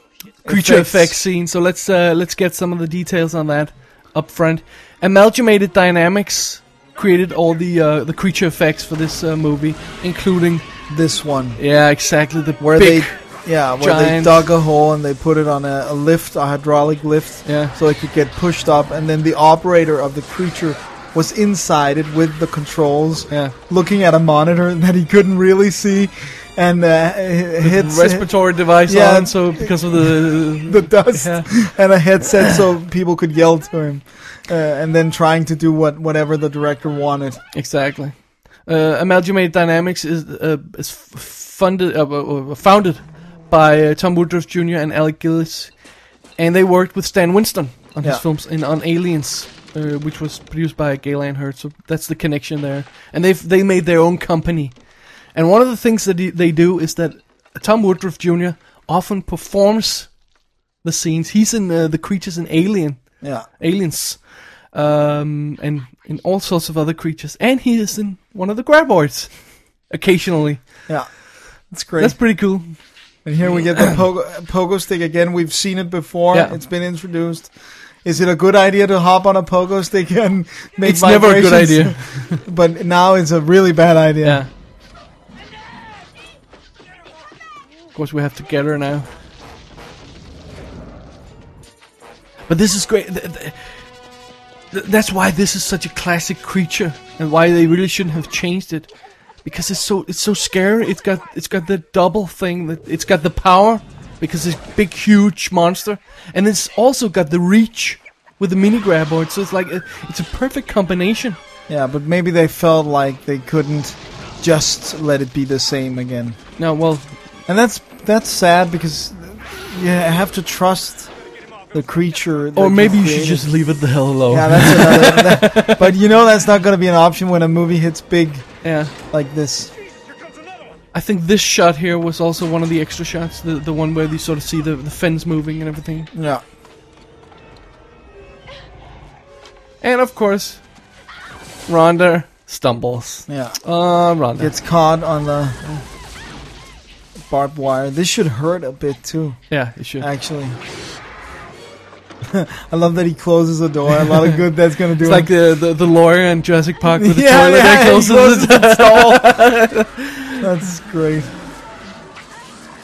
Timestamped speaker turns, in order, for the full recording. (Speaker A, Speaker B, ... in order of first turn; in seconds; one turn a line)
Speaker A: 0.4-1.2
Speaker B: 0.4-10.7
Speaker A: 10.9-11.6
Speaker B: 11.6-13.2
Speaker A: 12.6-37.4
Speaker B: 13.8-14.5
Speaker B: 17.4-17.7
Speaker B: 23.3-23.5
Speaker B: 27.6-31.5
Speaker B: 37.5-45.7
Speaker B: 46.4-54.7
Speaker B: 55.3-60.1
Speaker B: 60.8-70.6
Speaker A: 63.2-63.5
Speaker A: 70.9-72.2
Speaker B: 72.0-72.8
Speaker A: 73.2-77.5
Speaker A: 78.0-84.4
Speaker B: 80.8-82.4
Speaker B: 84.2-84.5
Speaker B: 87.9-89.1
Speaker B: 92.5-93.8
Speaker B: 94.7-98.9
Speaker B: 99.4-111.4
Speaker A: 111.7-116.4
Speaker B: 116.6-117.1
Speaker A: 117.5-121.1
Speaker A: 121.7-123.5
Speaker B: 122.5-125.9
Speaker A: 124.3-128.5
Speaker B: 128.6-128.9
Speaker A: 129.1-129.7
Speaker B: 130.9-136.1
Speaker A: 136.1-136.4
Speaker B: 139.8-140.6
Speaker B: 141.7-144.5
Speaker A: 143.3-143.6
Speaker A: 144.4-145.6
Speaker A: 147.2-149.4
Speaker B: 149.5-150.1
Speaker A: 150.0-150.6
Speaker A: 152.2-155.3
Speaker B: 155.0-160.4
Speaker A: 156.9-159.4
Speaker A: 160.4-161.3